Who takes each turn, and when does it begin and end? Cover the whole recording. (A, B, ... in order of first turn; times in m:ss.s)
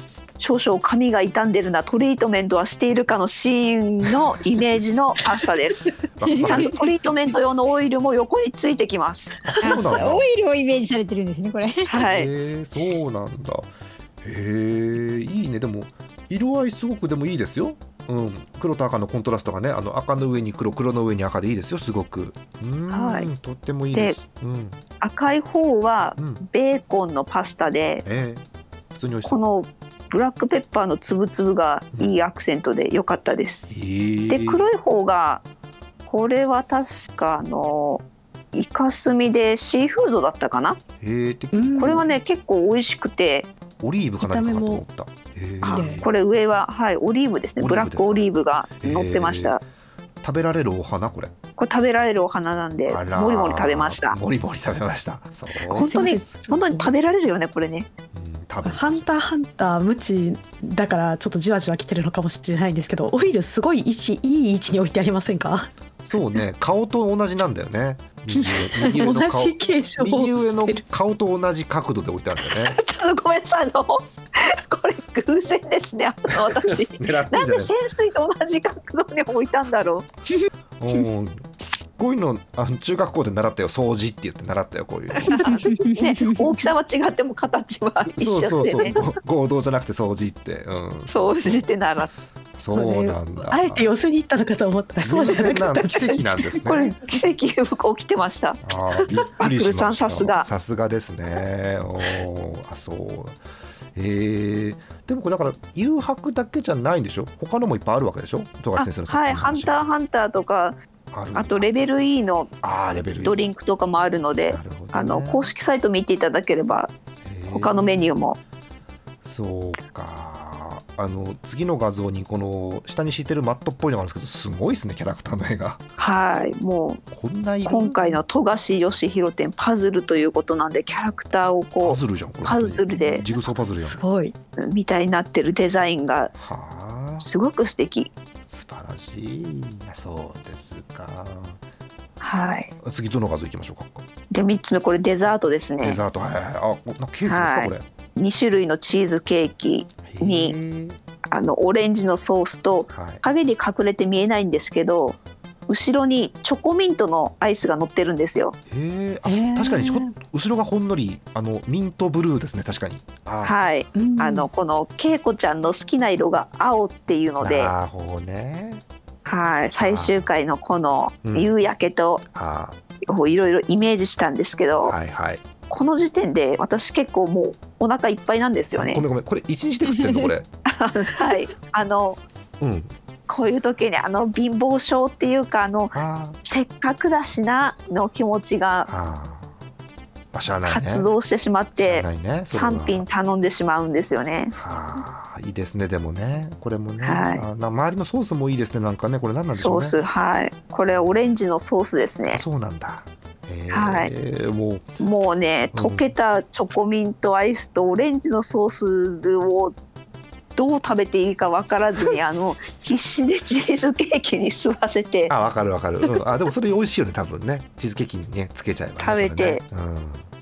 0:00.4-0:09.4 A
0:06.2-0:06.8 B
0:06.3-0:06.7 C
0:09.4-0:10.2 B
0:09.6-0:11.9 C
0:11.9-0:12.3 A
0:11.9-0:13.7 B
0:14.2-0:24.8 B
0:22.9-0:23.3 A
0:23.9-0:24.2 A
0:25.0-0:28.0 A
0:28.0-0:29.4 B
0:29.2-0:33.7 A
0:33.7-0:34.6 B
0:34.3-0:35.4 A
0:36.0-0:40.8 A
0:41.0-0:42.0 B
0:41.5-0:42.0 D
0:41.8-0:43.5 A
0:43.8-0:46.1 B
0:44.2-0:44.8 D
0:45.6-0:46.0 D
0:45.6-0:49.6 A
0:47.6-0:48.3 B
0:48.8-0:49.6 B
0:50.2-0:51.3 B
0:51.6-0:54.2 A
0:52.9-0:56.2 B
0:55.7-0:57.9 A
0:55.7-0:56.9 D
0:58.1-0:59.1 B
0:58.6-1:05.7 D
1:06.0-1:12.8 B
1:08.3-1:10.8 D
1:12.4-1:20.1 A
1:16.4-1:17.7 B
1:20.8-1:21.4 B
1:22.0-1:25.6 B
1:25.3-1:26.5 C
1:25.3-1:29.0 A
1:28.1-1:31.7 B
1:31.1-1:32.1 A
1:32.6-1:33.9 B
1:32.7-1:36.2 D
1:35.0-1:36.9 B
1:36.6-1:40.5 A
1:38.6-1:43.4 B
1:43.9-1:49.8 B
1:48.8-1:50.8 A
1:51.1-1:51.7 B
1:51.3-1:52.5 A
1:52.6-1:53.4 B
1:53.2-1:56.9 A
1:54.5-1:55.4 B
1:57.2-1:58.1 B
1:57.5-1:58.4 A
1:59.2-2:05.8 B
2:06.0-2:07.0 A
2:07.1-2:08.0 B
2:07.6-2:13.2 A
2:11.8-2:14.0 B
2:13.7-2:14.3 D
2:14.6-2:16.3 A
2:16.4-2:17.3 B
2:17.2-2:18.1 A
2:18.5-2:21.6 B
2:22.2-2:22.7 A
2:22.8-2:24.0 B
2:24.3-2:26.0 A
2:25.8-2:27.8 B
2:27.2-2:30.5 A
2:30.0-2:31.0 B
2:31.3-2:38.6 A
2:32.9-2:33.2 B
2:38.7-2:43.6 B
2:39.2-2:40.1 D
2:43.4-2:47.7 A
2:43.9-2:44.5 D
2:47.4-2:48.8 B
2:49.2-2:52.2 A
2:49.8-2:50.3 B
2:51.2-2:51.5 B
2:52.3-2:52.8 B
2:53.1-2:55.0 A
2:54.8-2:55.4 B
2:55.7-2:59.0 A
2:58.7-3:00.5 B
3:00.6-3:02.2 A
3:02.6-3:02.9 B
3:03.3-3:08.9 A
3:05.9-3:06.4 B
3:08.9-3:09.5 B
3:10.3-3:11.1 B
3:10.6-3:14.5 A
3:11.8-3:13.0 B
3:14.5-3:20.0 B
3:17.0-3:17.4 A
3:19.5-3:22.4 A
3:20.9-3:21.2 B
3:22.3-3:24.8 B
3:23.7-3:24.1 A
3:25.0-3:29.7 A
3:25.7-3:26.1 B
3:30.6-3:35.3 A
3:35.3-3:40.2 B
3:39.0-3:39.6 A